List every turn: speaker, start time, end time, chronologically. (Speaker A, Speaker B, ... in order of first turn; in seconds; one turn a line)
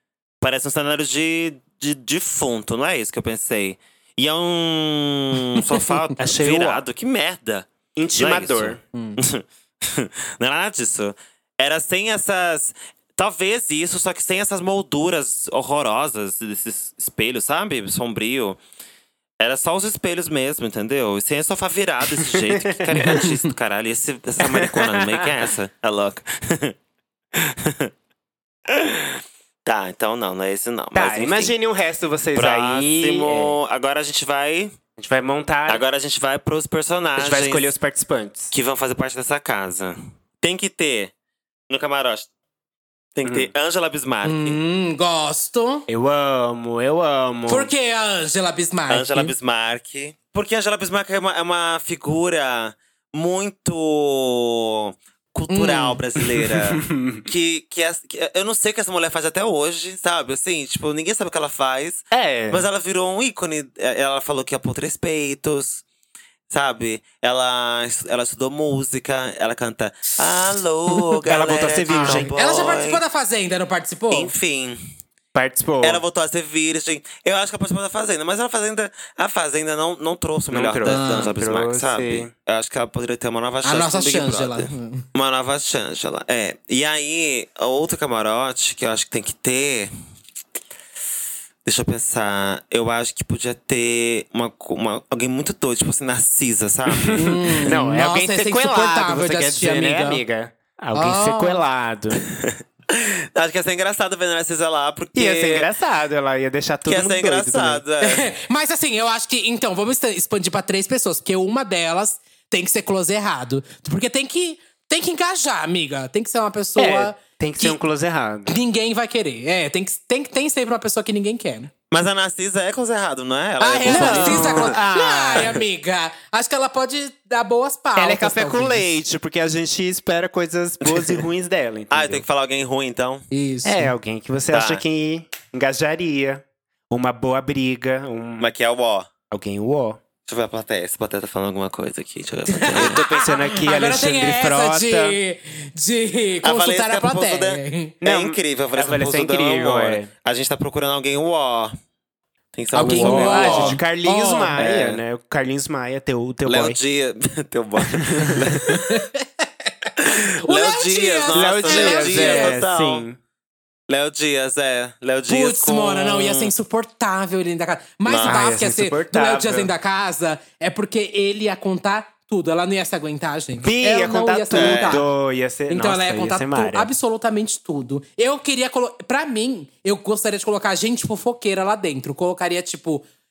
Speaker A: 0.4-18.6
Speaker B: 6.2-6.8
Speaker B: 7.9-8.8
Speaker C: 8.9-9.2
Speaker A: 19.4-26.7
Speaker B: 22.2-23.3
Speaker C: 23.0-23.3
Speaker B: 24.4-25.3
Speaker A: 27.3-27.9
Speaker A: 28.7-31.5
Speaker B: 30.9-33.6
Speaker A: 32.3-34.8
Speaker B: 35.0-35.8
Speaker A: 35.7-37.7
Speaker B: 37.2-38.5
Speaker A: 38.5-41.1
Speaker A: 41.7-42.3
Speaker A: 43.1-44.6
Speaker B: 43.2-43.5
Speaker C: 44.2-45.9
Speaker B: 45.9-47.7
Speaker C: 47.5-49.3
Speaker A: 48.9-65.8
Speaker C: 55.5-56.0
Speaker B: 56.2-57.2
Speaker B: 62.1-62.7
Speaker A: 66.5-73.0
Speaker B: 71.3-72.3
Speaker C: 71.9-74.3
Speaker A: 74.1-74.8
Speaker B: 75.3-76.0
Speaker A: 75.8-89.9
Speaker B: 80.5-82.3
Speaker C: 80.8-81.3
Speaker C: 83.6-85.0
Speaker A: 91.6-97.8
Speaker B: 97.1-102.2
Speaker C: 97.2-100.2
Speaker C: 100.9-101.6
Speaker A: 102.4-105.7
Speaker B: 105.1-107.8
Speaker A: 106.8-108.2
Speaker C: 108.0-117.8
Speaker B: 116.8-118.6
Speaker C: 118.5-121.7
Speaker A: 121.9-124.8
Speaker C: 123.6-128.9
Speaker B: 123.8-125.6
Speaker B: 128.0-132.2
Speaker A: 130.8-131.2
Speaker A: 131.9-133.3
Speaker C: 133.3-133.9
Speaker B: 133.6-138.5
Speaker A: 134.5-134.8
Speaker A: 138.4-139.1
Speaker B: 139.3-140.0
Speaker A: 140.2-143.0
Speaker C: 142.5-147.9
Speaker B: 142.7-145.2
Speaker A: 146.4-151.7
Speaker B: 148.0-150.1
Speaker A: 152.5-153.8
Speaker C: 152.7-154.6
Speaker B: 152.8-156.8
Speaker A: 154.6-155.0
Speaker A: 156.4-159.0
Speaker B: 157.9-158.6
Speaker C: 158.6-162.6
Speaker A: 160.0-163.0
Speaker B: 161.3-163.2
Speaker A: 163.9-166.5
Speaker C: 165.3-175.1
Speaker A: 168.1-168.4
Speaker B: 168.2-169.7
Speaker B: 173.6-176.9
Speaker A: 174.5-175.0
Speaker C: 175.7-183.1